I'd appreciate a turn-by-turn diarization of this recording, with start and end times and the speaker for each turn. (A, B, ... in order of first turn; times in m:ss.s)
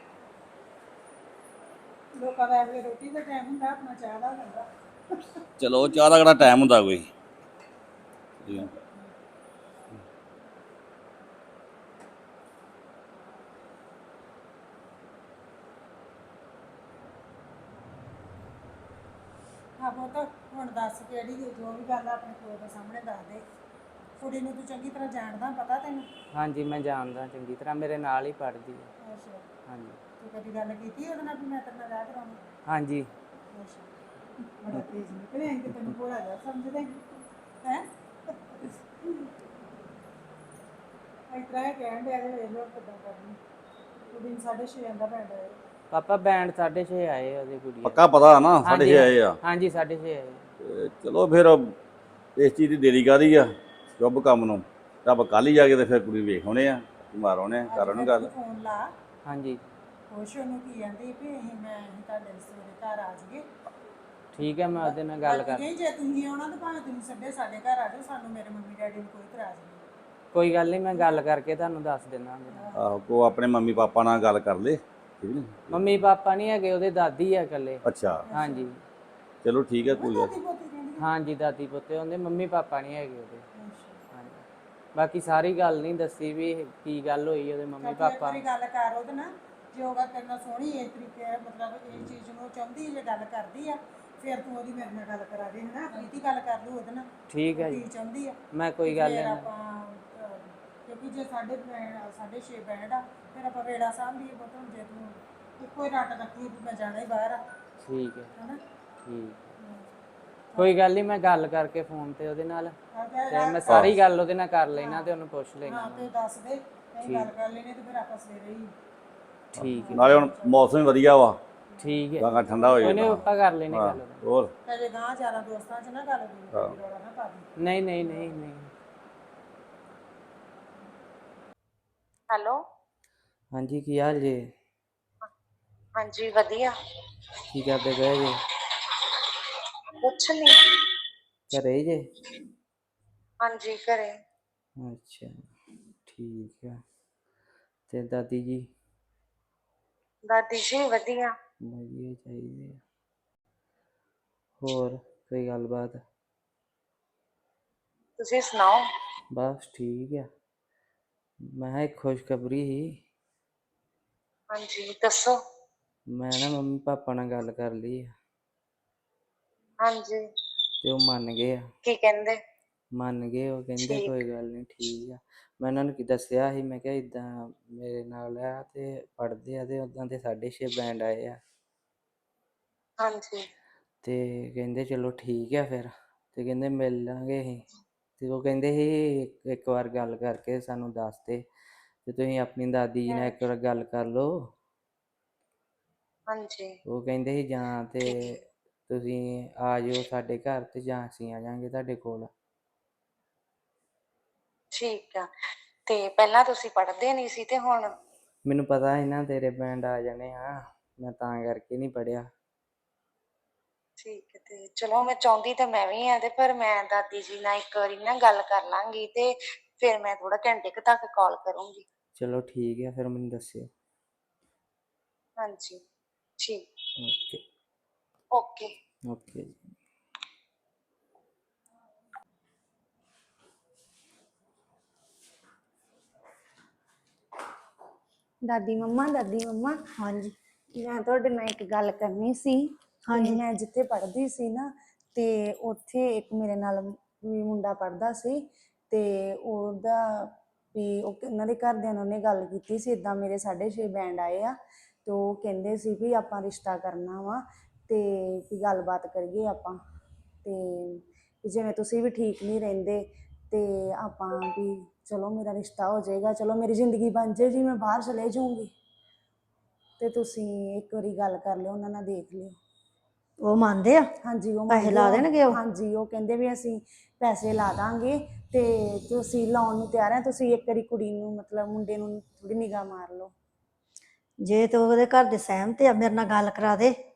0:02.2-0:05.2 A
0:05.6-0:07.1 B
0:08.4-0:08.7 B
0:19.8-0:23.4 A
0:24.2-0:26.1 A
0:26.4-0:28.9 C
0:29.0-0:29.5 A
0:29.7-0:30.0 C
0:30.2-0:32.4 A
0:32.7-0:33.1 C
0:33.5-0:33.9 A
0:34.6-0:37.0 A
0:37.6-0:38.7 A
0:41.3-0:43.4 A
0:44.1-0:45.6 A
0:45.9-0:47.9 C
0:47.8-0:49.4 B
0:48.7-0:50.4 C
0:50.6-0:51.8 B
0:52.4-0:53.5 B
0:54.0-0:58.3 B
0:57.7-0:58.9 A
0:59.3-0:59.6 C
1:00.1-1:03.4 A
1:04.3-1:05.6 C
1:04.8-1:09.8 A
1:10.3-1:12.6 C
1:10.9-1:11.2 A
1:12.5-1:12.8 A
1:12.7-1:16.0 B
1:15.7-1:17.8 C
1:17.8-1:18.3 B
1:18.3-1:18.7 A
1:18.5-1:18.8 C
1:19.4-1:20.3 B
1:19.9-1:21.0 A
1:21.0-1:23.4 C
1:23.5-1:24.0 A
1:24.2-1:24.4 C
1:25.0-1:28.2 C
1:27.8-1:47.4 A
1:37.3-1:37.8 C
1:38.5-1:39.5 C
1:47.8-1:48.3 C
1:49.1-1:49.5 C
1:50.5-1:50.8 A
1:50.6-1:52.8 C
1:52.9-1:54.0 A
1:53.4-1:56.1 C
1:53.6-1:54.0 B
1:54.7-1:58.7 A
1:59.6-2:01.4 B
1:59.6-2:00.7 A
2:01.8-2:03.1 A
2:01.8-2:04.2 C
2:02.2-2:04.5 B
2:04.7-2:07.5 A
2:06.5-2:06.8 B
2:07.6-2:08.7 C
2:08.0-2:08.4 A
2:12.3-2:12.6 D
2:13.5-2:14.5 C
2:16.0-2:16.7 D
2:17.5-2:18.4 C
2:20.0-2:20.5 D
2:21.5-2:22.0 C
2:23.4-2:24.1 D
2:24.8-2:25.3 C
2:26.1-2:26.8 C
2:27.9-2:28.6 C
2:30.2-2:31.3 D
2:31.7-2:32.8 C
2:34.6-2:36.0 C
2:38.2-2:38.8 D
2:39.3-2:40.3 C
2:41.5-2:43.0 C
2:44.5-2:45.4 D
2:46.1-2:48.1 C
2:49.8-2:50.2 D
2:50.8-2:51.6 C
2:51.8-2:52.4 D
2:53.0-3:01.4 C
2:53.8-2:54.2 D
3:03.0-3:03.5 D
3:04.0-3:07.6 C
3:08.2-3:11.4 C
3:12.1-3:14.4 C
3:13.1-3:13.5 D
3:16.3-3:16.8 D
3:16.9-3:18.1 C
3:18.0-3:18.4 D
3:18.9-3:22.3 C
3:24.7-3:25.3 D
3:25.9-3:28.0 D
3:28.5-3:32.3 C
3:34.0-3:41.8 D
3:42.2-3:43.7 C
3:45.4-3:45.8 D
3:46.4-3:46.6 D
3:47.0-3:47.4 C
3:48.3-3:48.7 D
3:49.1-3:49.7 C
3:58.4-3:59.8 E
4:00.0-4:00.4 F
4:00.8-4:08.4 E
4:03.1-4:03.4 F
4:08.9-4:19.8 E
4:20.4-4:28.7 E
4:30.0-4:32.6 E
4:33.4-4:34.1 F
4:34.2-4:43.3 E
4:34.7-4:35.6 F
4:44.4-4:47.0 F